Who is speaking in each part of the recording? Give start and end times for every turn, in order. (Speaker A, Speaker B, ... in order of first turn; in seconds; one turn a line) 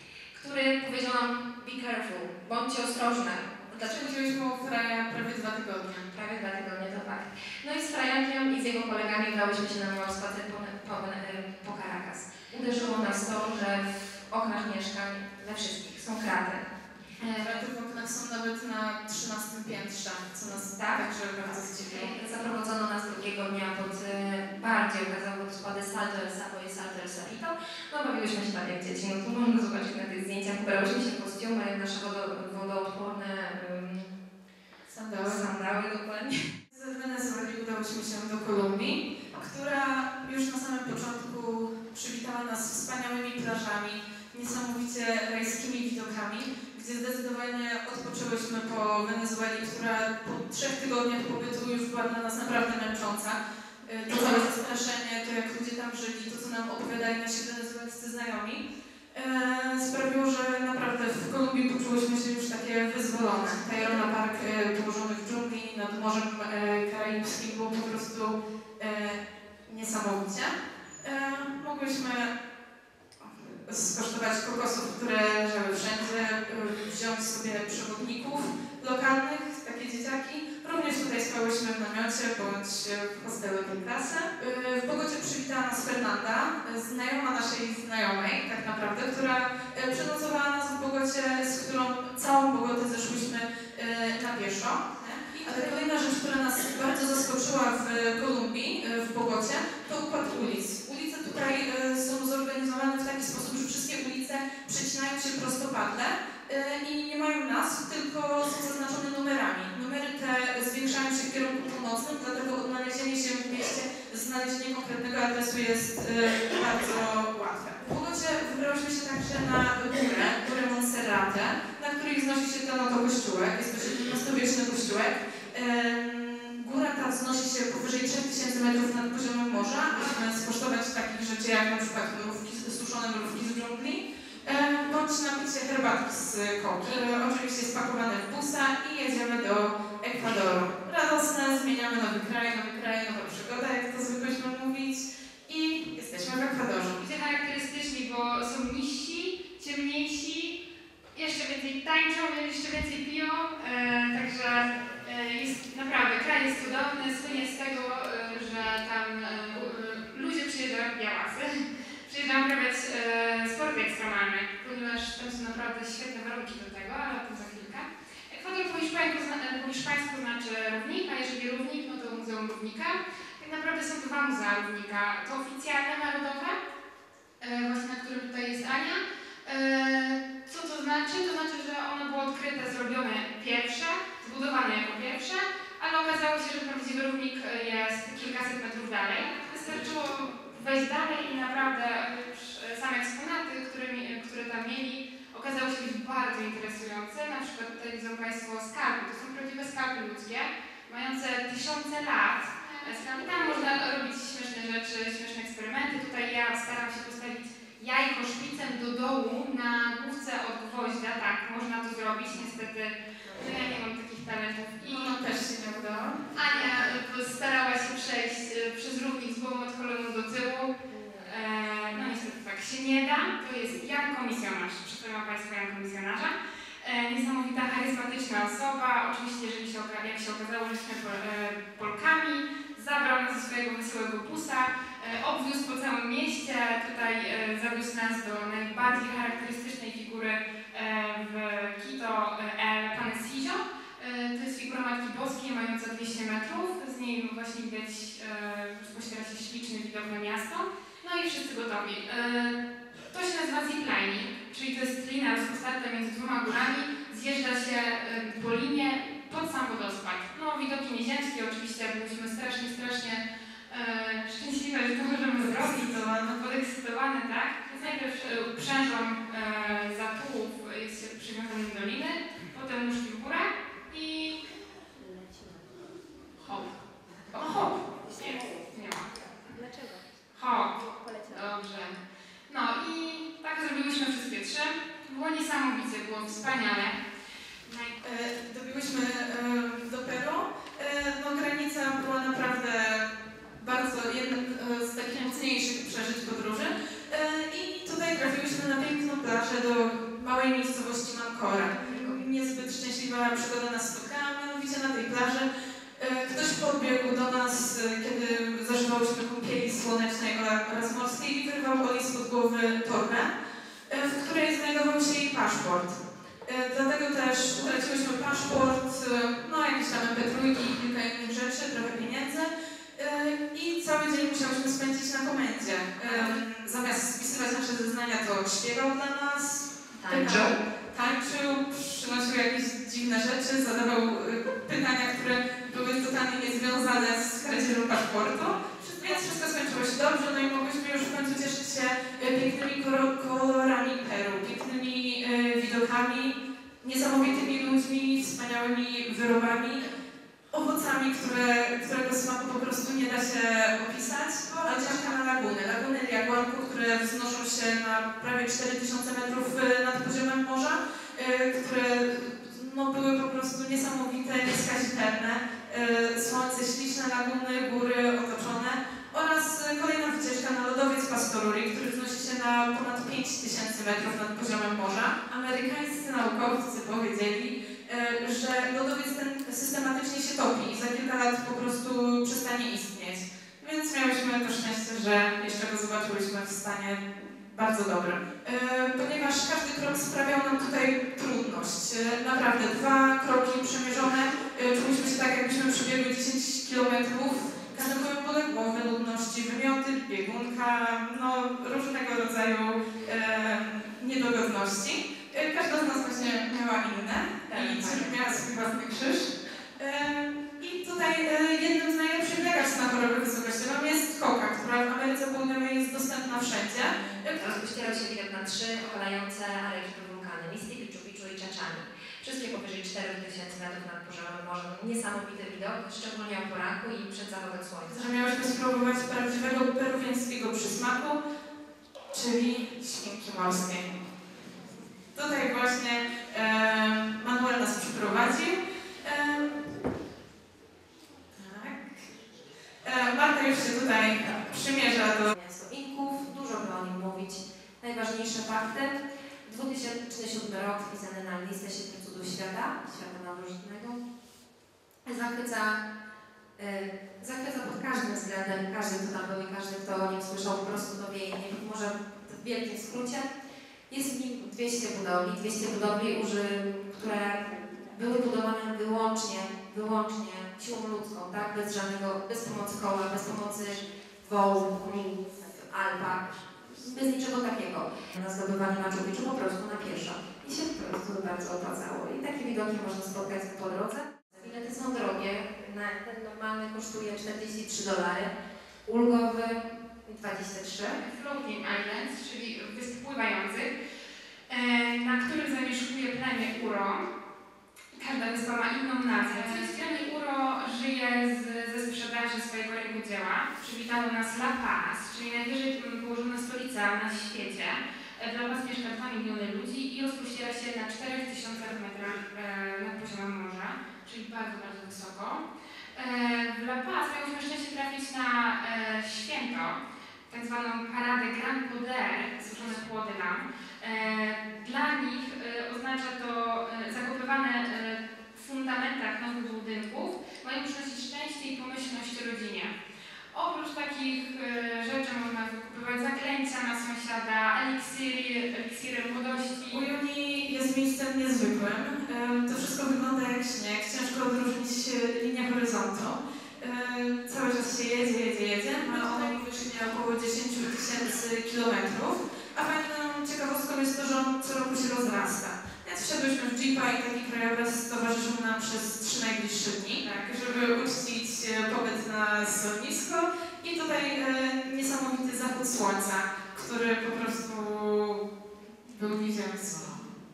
Speaker A: 0.3-4.1
Speaker B: 3.7-6.1
Speaker A: 6.1-16.7
Speaker C: 17.2-17.6
Speaker B: 17.4-22.1
Speaker A: 20.8-34.2
Speaker B: 34.9-35.5
Speaker A: 35.2-36.5
Speaker B: 36.7-72.3
Speaker A: 63.4-63.8
Speaker B: 73.2-147.0
Speaker C: 95.3-95.9
Speaker C: 147.0-150.6
Speaker C: 151.2-176.6
Speaker C: 177.4-215.2
Speaker A: 213.3-213.7
Speaker B: 214.8-216.2
Speaker C: 216.3-252.6
Speaker A: 220.9-221.3
Speaker C: 253.1-274.4
Speaker B: 265.8-266.1
Speaker A: 275.1-275.5
Speaker C: 277.3-279.1
Speaker A: 279.6-280.0
Speaker C: 280.3-282.0
Speaker C: 282.5-287.0
Speaker C: 287.7-288.0
Speaker B: 288.0-293.1
Speaker B: 293.6-305.5
Speaker A: 301.6-302.3
Speaker B: 306.0-313.3
Speaker B: 313.9-349.8
Speaker A: 330.0-330.6
Speaker B: 350.5-417.5
Speaker A: 417.0-427.9
Speaker B: 427.9-431.2
Speaker B: 432.1-434.0
Speaker B: 435.1-439.6
Speaker B: 441.4-441.8
Speaker B: 442.8-445.3
Speaker A: 445.1-454.0
Speaker A: 455.1-455.8
Speaker A: 456.6-463.3
Speaker A: 463.9-488.3
Speaker A: 488.9-491.0
Speaker C: 491.0-493.7
Speaker C: 494.5-497.1
Speaker C: 497.9-515.4
Speaker C: 516.0-532.7
Speaker C: 533.3-539.9
Speaker B: 539.7-568.2
Speaker C: 548.8-549.3
Speaker B: 568.9-570.0